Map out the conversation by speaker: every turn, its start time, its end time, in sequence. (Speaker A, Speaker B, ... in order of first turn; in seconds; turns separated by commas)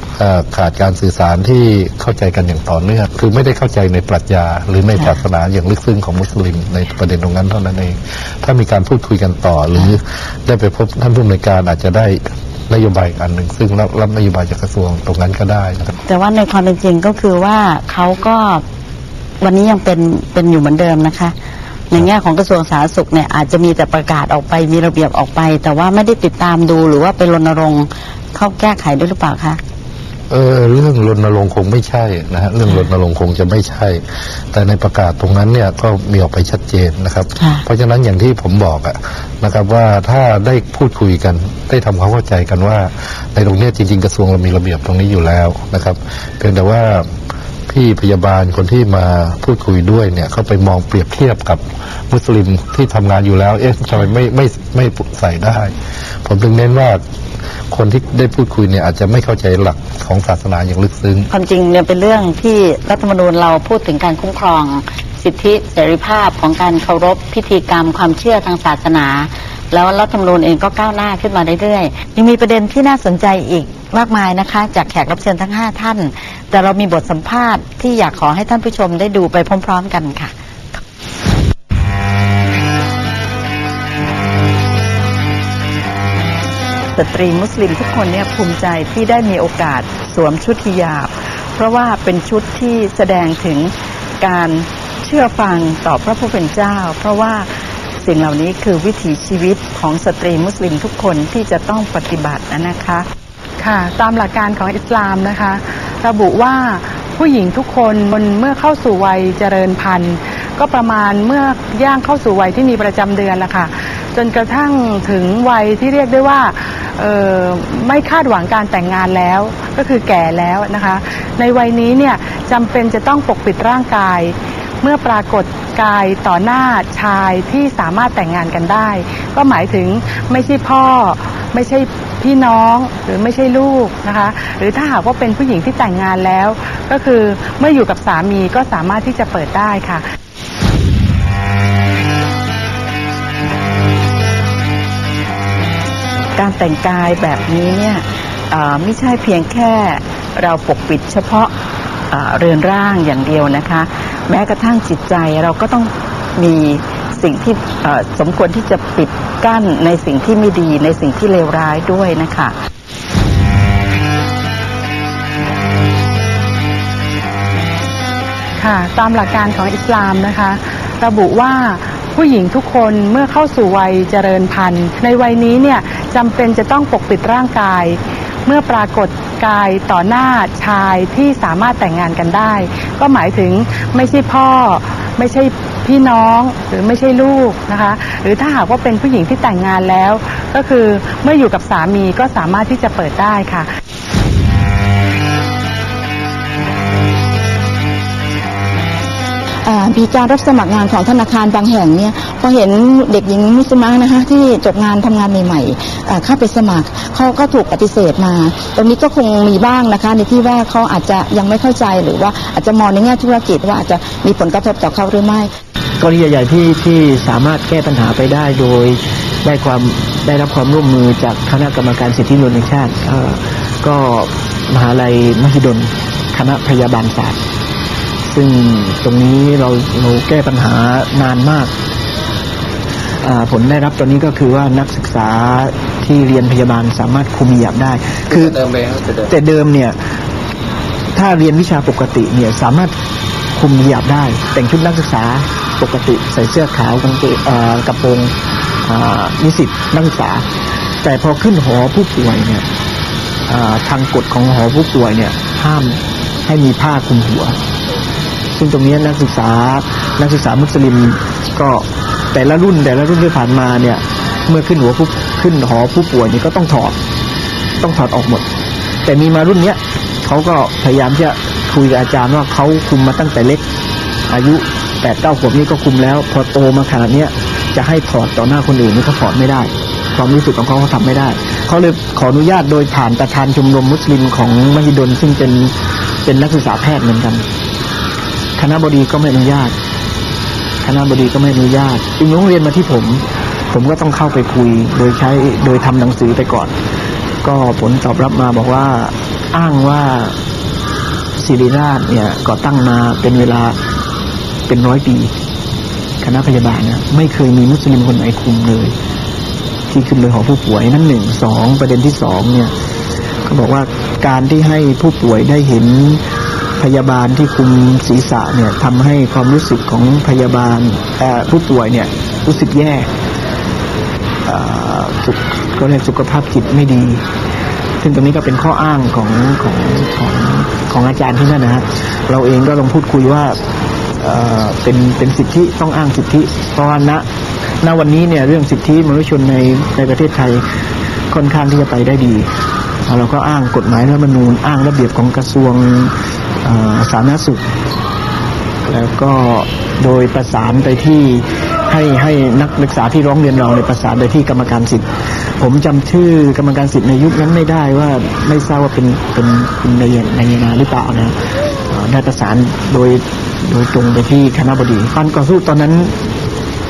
Speaker A: 0.2-15.9, Speaker B: 16.1-18.6, Speaker B: 19.4-21.4, Speaker B: 21.9-29.6, Speaker A: 30.3-47.1, Speaker B: 37.4-37.6, Speaker A: 47.7-55.7, Speaker A: 56.2-57.0, Speaker A: 57.7-61.3, Speaker B: 61.3-80.3, Speaker C: 87.0-90.8, Speaker D: 87.6-88.4, Speaker D: 89.0-93.7, Speaker C: 91.6-93.5, Speaker D: 94.2-97.5, Speaker C: 95.2-97.3, Speaker D: 98.0-103.1, Speaker C: 98.2-99.1, Speaker C: 99.7-100.2, Speaker C: 101.0-102.5, Speaker E: 103.6-140.0, Speaker D: 146.4-151.5, Speaker C: 146.4-147.8, Speaker C: 148.5-149.6, Speaker C: 150.4-151.5, Speaker C: 152.1-155.9, Speaker D: 152.1-162.5, Speaker C: 157.5-158.7, Speaker C: 160.8-162.5, Speaker E: 168.6-193.7, Speaker C: 199.7-215.5, Speaker F: 216.0-227.4, Speaker F: 228.3-231.7, Speaker F: 233.2-239.9, Speaker F: 241.2-242.9, Speaker F: 243.6-248.3, Speaker F: 248.8-250.4, Speaker F: 251.0-252.7, Speaker F: 253.5-257.6, Speaker F: 258.5-267.0, Speaker F: 267.8-268.5, Speaker F: 269.1-273.6, Speaker F: 274.3-285.7, Speaker F: 286.2-287.4, Speaker F: 288.6-289.8, Speaker F: 290.8-296.7, Speaker F: 297.4-300.3, Speaker F: 301.4-303.8, Speaker F: 304.7-305.3, Speaker F: 306.2-308.9, Speaker F: 309.9-312.7, Speaker F: 313.5-316.2, Speaker F: 316.8-323.1, Speaker F: 324.5-327.2, Speaker F: 328.0-333.6, Speaker F: 334.2-337.2, Speaker F: 337.8-340.6, Speaker F: 341.3-342.5, Speaker F: 343.1-347.6, Speaker F: 348.9-355.1, Speaker F: 355.6-361.4, Speaker F: 361.9-366.1